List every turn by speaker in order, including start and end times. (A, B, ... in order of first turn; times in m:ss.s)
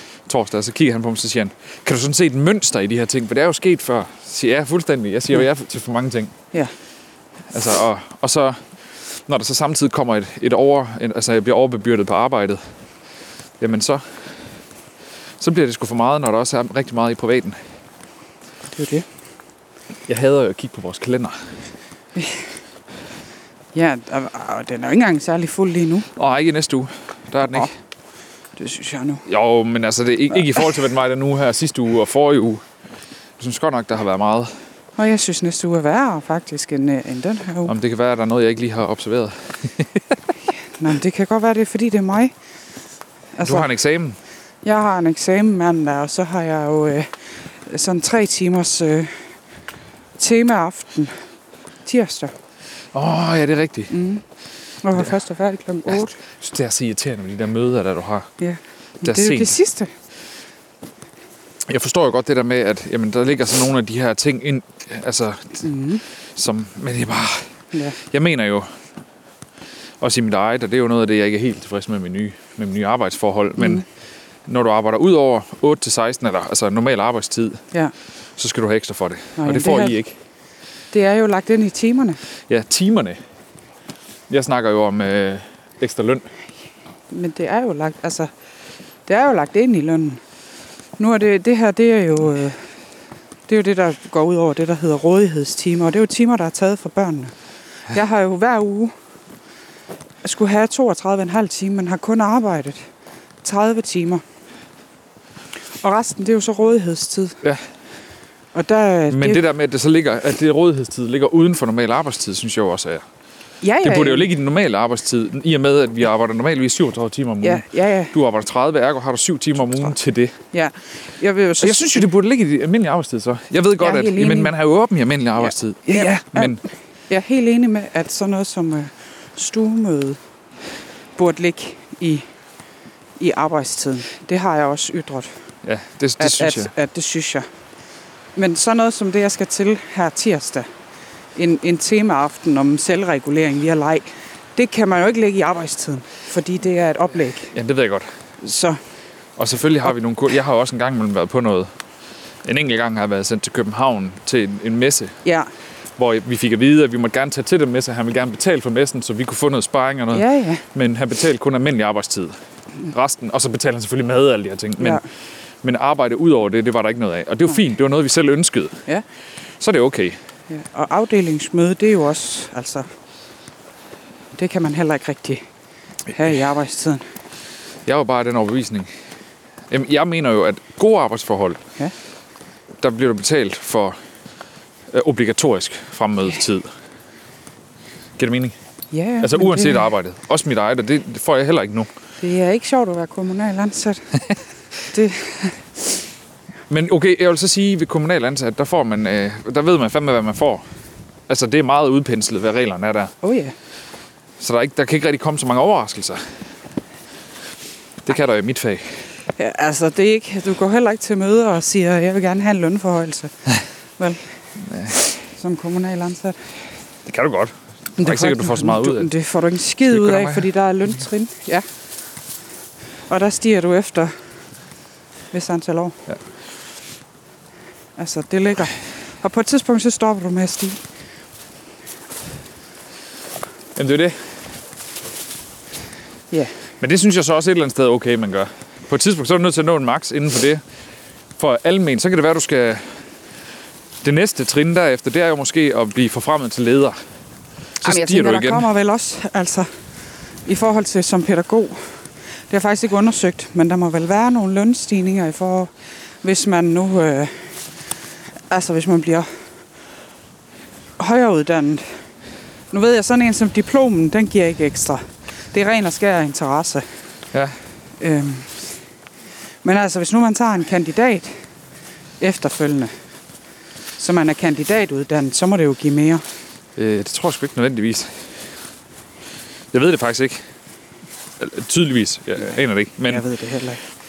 0:00.3-0:06.3 A
0:07.5-0:12.6 A
0:13.6-0:14.2 A
0:15.4-0:17.6 A
0:18.7-0:19.1 B
0:20.1-0:21.4 A
0:22.2-0:22.4 B
0:23.7-0:26.1 B
0:26.2-0:27.7 A
0:27.5-0:27.7 B
0:28.6-0:29.3 B
0:29.3-0:32.6 A
0:33.4-0:34.6 A
0:35.0-0:37.7 B
0:37.6-0:40.2 A
0:40.7-0:42.3 B
0:43.3-0:43.7 B
0:43.4-0:44.2 A
0:44.6-0:47.1 B
0:47.7-0:49.2 B
0:50.2-0:51.2 B
0:51.8-0:52.3 B
0:52.9-0:53.9 A
0:53.9-0:54.2 B
0:54.8-0:56.2 B
0:55.9-0:58.3 A
0:58.4-0:59.9 B
0:59.0-0:59.6 A
1:01.7-1:05.7 A
1:05.6-1:06.0 B
1:06.4-1:08.7 A
1:10.0-1:13.8 A
1:13.6-1:13.8 B
1:14.5-1:17.6 A
1:18.4-1:20.2 A
1:19.4-1:20.0 B
1:20.9-1:22.2 B
1:22.5-1:23.2 A
1:24.3-1:26.3 A
1:27.1-1:28.3 B
1:29.1-1:30.2 B
1:31.0-1:32.6 B
1:33.5-1:37.3 B
1:37.9-1:38.9 B
1:40.2-1:42.9 B
1:43.4-1:44.2 B
1:45.8-1:47.4 B
1:48.5-1:49.4 B
1:49.1-1:53.0 A
1:53.6-1:54.3 B
1:53.8-2:00.4 A
1:57.4-1:58.1 B
2:00.5-2:02.1 B
2:01.6-2:06.6 A
2:03.8-2:04.5 B
2:05.4-2:10.2 B
2:11.2-2:12.2 B
2:13.2-2:15.3 B
2:15.6-2:16.7 A
2:16.2-2:17.5 B
2:18.4-2:20.7 B
2:21.4-2:27.5 B
2:27.5-2:28.1 A
2:28.4-2:28.8 B
2:29.4-2:31.7 A
2:32.4-2:35.2 A
2:35.2-2:35.5 B
2:36.0-2:45.0 A
2:40.1-2:40.6 B
2:44.8-2:45.0 B
2:45.6-2:48.8 A
2:49.6-2:50.2 A
2:50.5-2:52.9 B
2:54.4-2:55.4 B
2:56.1-2:57.0 B
2:57.9-2:58.9 A
2:59.7-3:01.6 A
3:02.8-3:04.0 A
3:04.9-3:06.7 A
3:08.2-3:08.6 A
3:08.9-3:09.9 B
3:09.2-3:11.9 A
3:12.2-3:14.2 B
3:14.9-3:15.9 B
3:16.7-3:20.6 A
3:21.3-3:23.1 A
3:23.2-3:23.5 B
3:24.4-3:26.3 A
3:28.0-3:29.1 A
3:29.4-3:33.3 B
3:34.0-3:34.2 B
3:34.6-3:35.1 A
3:35.3-3:36.6 B
3:37.0-3:39.1 A
3:38.0-3:41.6 B
3:39.9-3:40.5 A
3:43.1-3:44.2 B
3:45.3-3:46.0 B
3:48.0-3:50.8 B
3:53.8-3:54.2 A
3:56.8-4:00.6 A
4:01.4-4:02.9 A
4:04.0-4:07.0 A
4:07.8-4:08.7 A
4:07.8-4:09.7 B
4:10.4-4:15.7 B
4:16.2-4:17.6 B
4:18.5-4:19.3 B
4:21.0-4:22.0 B
4:22.7-4:26.9 B
4:28.0-4:28.7 B
4:29.6-4:31.4 B
4:32.2-4:32.9 B
4:34.0-4:36.2 B
4:36.8-4:38.2 A
4:39.7-4:40.4 A
4:41.4-4:43.2 A
4:43.1-4:43.8 B